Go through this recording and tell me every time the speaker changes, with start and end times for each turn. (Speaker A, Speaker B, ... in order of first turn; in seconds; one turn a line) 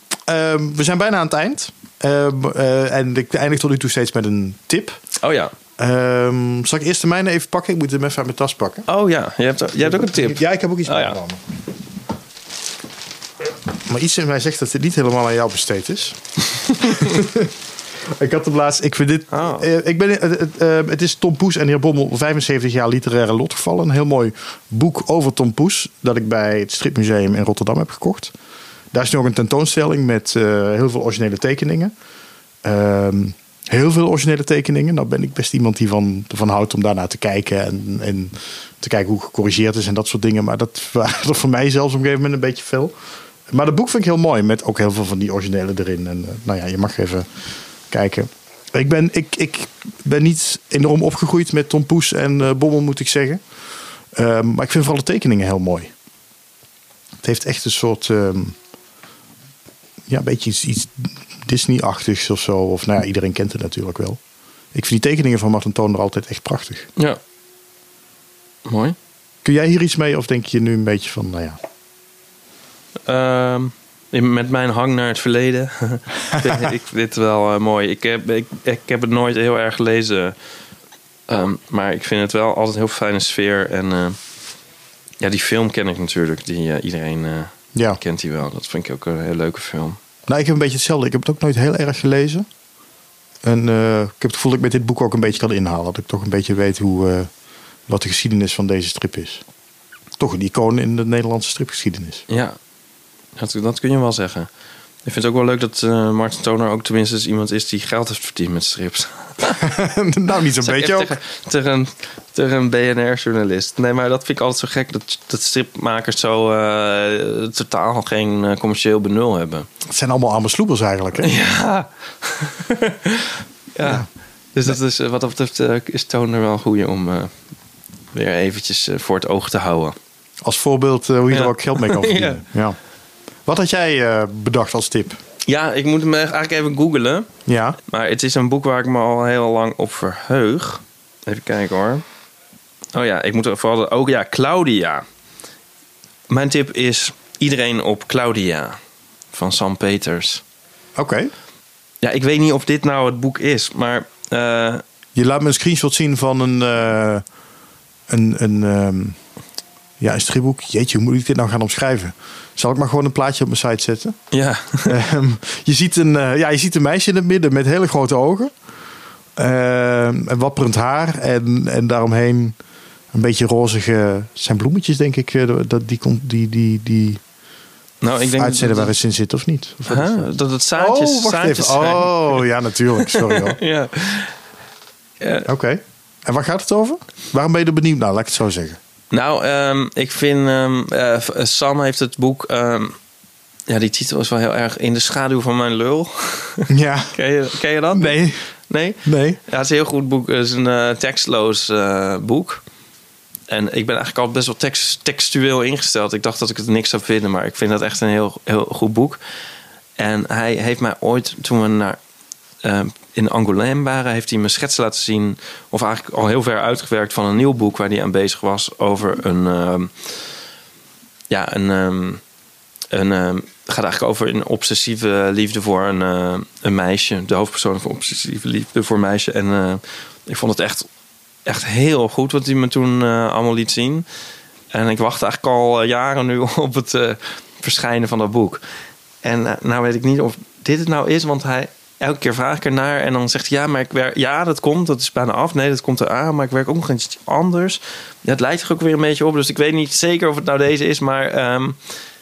Speaker A: 0.3-5.0
Speaker B: 5.2-5.5
Speaker A: 5.8-8.8
Speaker B: 8.9-11.2
Speaker A: 9.8-11.4
Speaker A: 13.9-16.2
Speaker A: 16.8-17.5
Speaker B: 16.8-17.1
Speaker A: 18.1-28.3
Speaker B: 19.3-19.7
Speaker A: 28.9-31.9
Speaker A: 32.6-42.9
Speaker A: 43.5-47.3
Speaker A: 47.9-53.5
Speaker A: 54.1-55.9
Speaker A: 57.2-58.6
Speaker A: 60.1-64.2
Speaker A: 64.7-66.9
Speaker B: 68.7-69.0
Speaker A: 69.4-71.6
Speaker B: 73.1-80.3
Speaker B: 81.3-84.2
Speaker B: 85.2-90.0
Speaker A: 87.7-88.0
Speaker A: 90.3-92.5
Speaker A: 93.4-97.3
Speaker A: 97.9-99.4
Speaker A: 100.2-102.2
Speaker B: 102.3-102.6
Speaker B: 103.4-104.5
Speaker B: 105.0-109.6
Speaker A: 109.6-111.2
Speaker B: 110.6-119.7
Speaker A: 119.8-121.4
Speaker B: 121.2-127.3
Speaker A: 123.8-124.1
Speaker B: 128.1-130.0
Speaker A: 130.4-132.8
Speaker B: 131.3-132.4
Speaker A: 133.5-135.2
Speaker B: 135.5-137.3
Speaker A: 137.5-137.8
Speaker B: 137.9-142.0
Speaker B: 142.9-145.0
Speaker B: 146.3-148.8
Speaker B: 149.3-150.4
Speaker A: 151.0-151.3
Speaker B: 152.0-154.8
Speaker A: 155.2-157.2
Speaker A: 158.1-159.2
Speaker A: 160.0-164.2
Speaker B: 164.3-165.0
Speaker A: 164.9-168.5
Speaker A: 169.4-172.6
Speaker A: 173.1-177.2
Speaker B: 178.0-178.9
Speaker A: 178.2-183.6
Speaker B: 179.9-182.4
Speaker B: 183.0-184.3
Speaker B: 185.2-185.5
Speaker A: 185.5-188.8
Speaker B: 189.1-193.0
Speaker B: 193.7-202.6
Speaker A: 196.7-197.2
Speaker A: 197.9-198.5
Speaker A: 199.0-199.4
Speaker B: 203.5-209.2
Speaker B: 210.0-212.0
Speaker B: 212.6-220.1
Speaker B: 221.3-222.2
Speaker B: 222.9-230.9
Speaker B: 231.4-234.1
Speaker B: 234.7-238.6
Speaker B: 239.2-251.9